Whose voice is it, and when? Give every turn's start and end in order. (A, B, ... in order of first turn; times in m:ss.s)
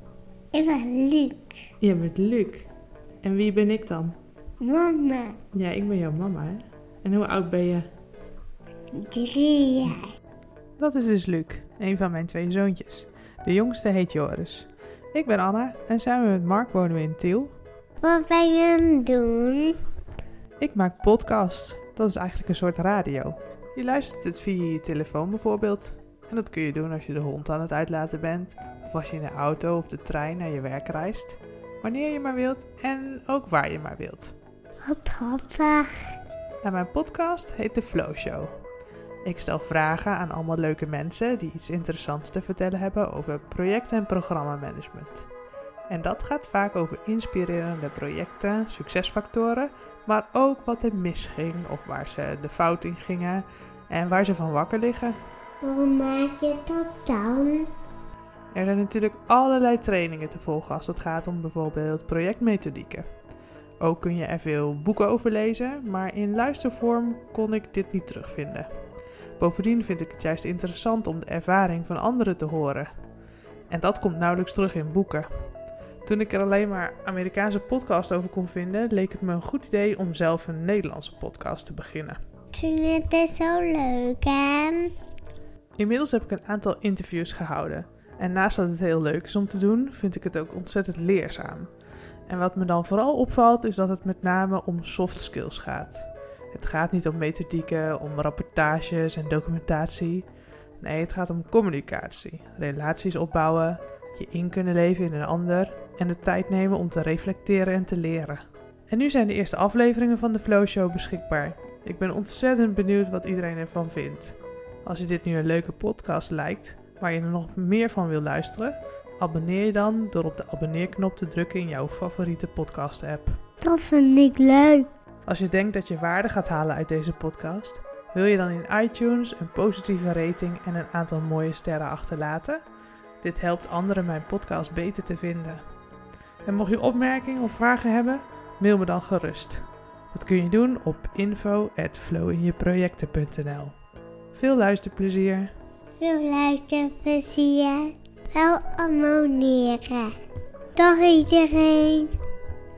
0:00.5-0:01.5 A
0:01.8-0:02.7 B
0:03.2-0:04.2 B
0:04.6-0:05.4 A
0:05.5-0:07.9 B
0:09.0-0:10.1 A
0:10.8-0:17.5 B
0:18.0-0:19.8 A
0:20.6-0:34.4 B
0:34.8-0:36.1 A
0:36.6-0:38.6 B
0:39.2-0:45.3 B
0:45.9-0:55.2 B
0:55.6-0:57.7 A
0:58.5-1:03.0 B
1:03.8-1:08.7 B
1:09.4-1:12.9 B
1:13.7-1:15.3 B
1:16.0-1:22.2 B
1:22.5-1:24.9 A
1:25.8-1:31.7 B
1:32.3-1:40.3 B
1:40.8-2:03.4 B
2:03.6-2:04.9 A
2:05.3-2:12.6 B
2:13.2-2:15.6 B
2:16.4-2:23.8 B
2:24.3-2:25.5 B
2:26.0-2:30.1 A
2:30.8-2:32.1 A